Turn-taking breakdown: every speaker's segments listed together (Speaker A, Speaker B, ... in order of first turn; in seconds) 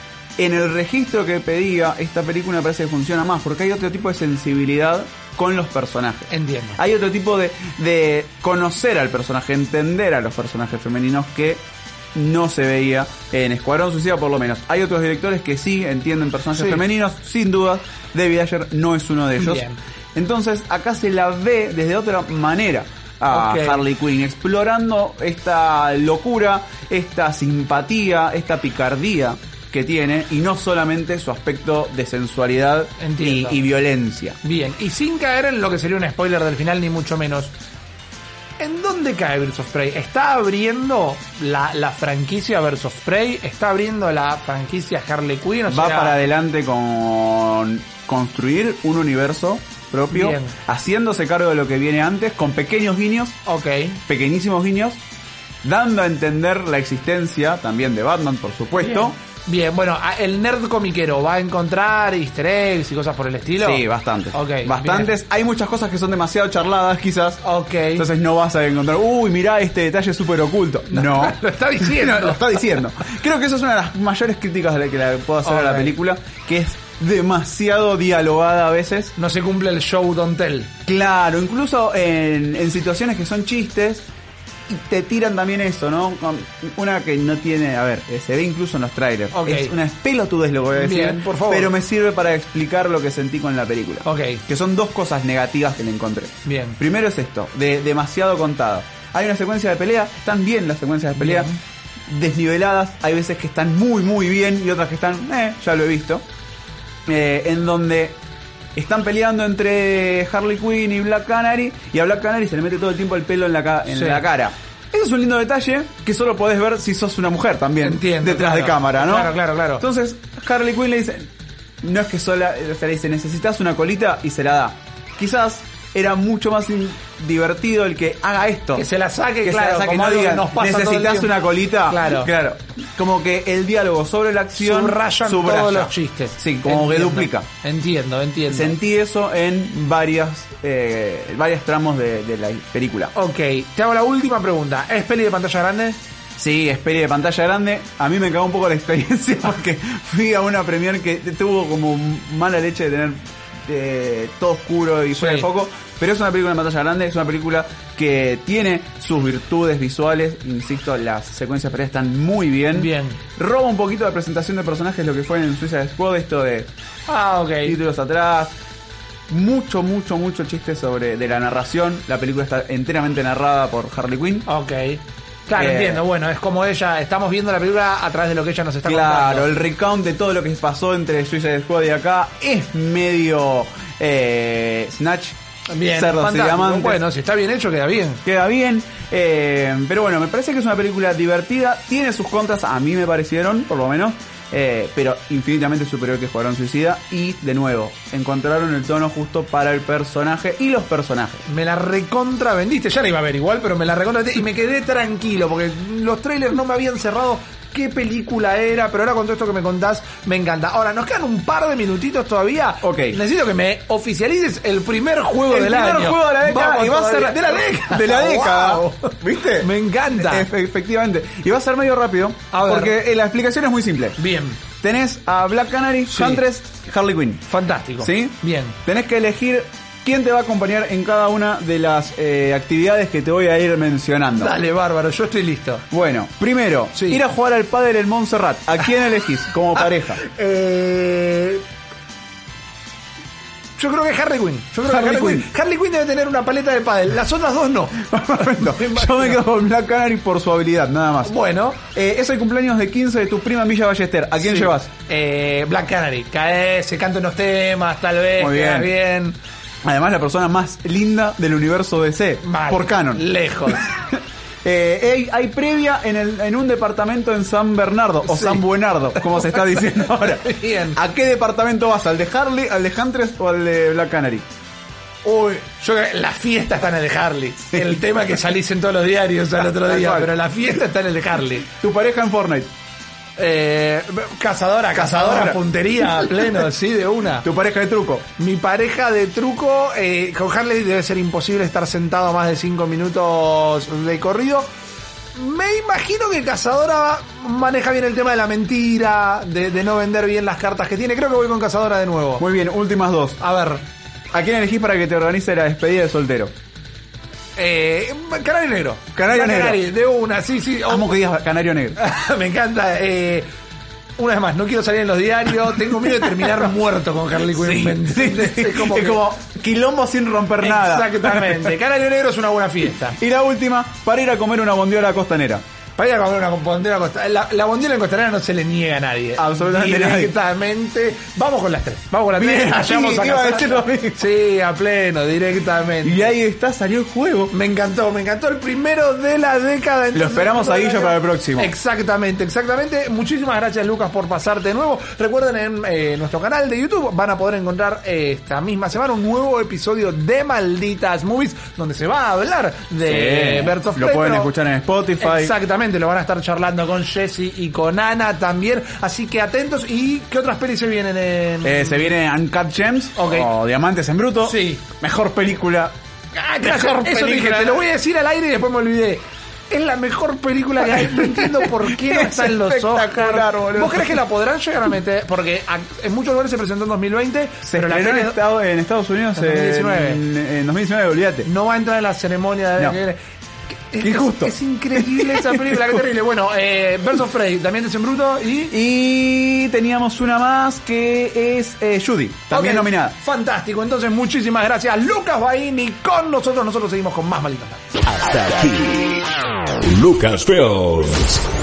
Speaker A: 0.4-11.6, 12.1-34.4, 45.7-53.4, 54.1-55.0, 55.6-59.1, 63.6-67.4, 67.9-79.1, 80.8-84.1, 84.7-101.5, 102.1-106.2, 107.0-108.2, 108.8-121.3, 121.8-128.9, 129.4-137.5, 138.5-143.1, 146.4-166.7, 167.6-168.5, 169.3-174.5, 175.5-176.0, 178.8-187.0, 188.2-201.4, 212.8-213.2, 215.5-224.2, 224.8-227.4, 228.0-234.6, 235.9-240.2, 244.8-245.5, 248.1-251.3, 251.9-254.9, 258.4-258.9, 259.8-264.0, 264.6-274.5, 279.6-280.3, 281.7-282.7, 284.9-286.5, 287.4-288.2, 302.4-303.4, 304.3-306.5, 309.1-309.8, 310.9-312.0, 316.0-316.6, 317.5-321.8, 323.1-325.6, 329.4-330.3, 332.3-334.3, 336.0-337.5, 340.1-341.7, 353.0-355.5, 361.6-365.9, 366.6-367.9, 370.8-374.2, 377.6-381.5, 384.0-386.0, 388.7-393.1
Speaker B: 6.3-6.8, 16.5-16.8, 19.4-19.8, 23.3-23.8, 33.0-33.6, 34.4-37.5, 38.6-46.2, 50.1-50.5, 53.5-54.0, 58.8-65.1, 67.4-68.0, 70.9-72.5, 75.4-75.9, 79.2-80.7, 89.3-89.7, 90.7-91.7, 94.0-94.4, 96.4-96.8, 101.2-101.6, 113.9-114.2, 117.8-119.8, 128.7-132.3, 134.6-138.8, 143.1-146.0, 155.1-155.5, 162.7-163.2, 167.1-167.8, 174.4-179.5, 185.7-188.2, 201.4-220.5, 222.5-223.0, 224.2-224.6, 226.1-226.4, 227.4-228.8, 234.3-235.8, 236.9-237.2, 239.8-241.6, 243.8-249.4, 251.2-251.8, 254.4-259.4, 262.4-263.9, 268.2-271.0, 275.2-281.7, 283.4-287.4, 288.4-294.7, 295.3-302.4, 303.4-303.8, 307.6-311.1, 312.0-313.4, 314.2-319.2, 320.6-323.2, 326.0-336.3, 337.5-354.5, 355.2-362.1, 363.2-363.5, 364.4-364.8, 366.3-378.4, 379.3-380.2, 381.4-383.2, 383.9-388.7, 392.5-397.8
Speaker C: 398.1-399.2, 399.8-401.5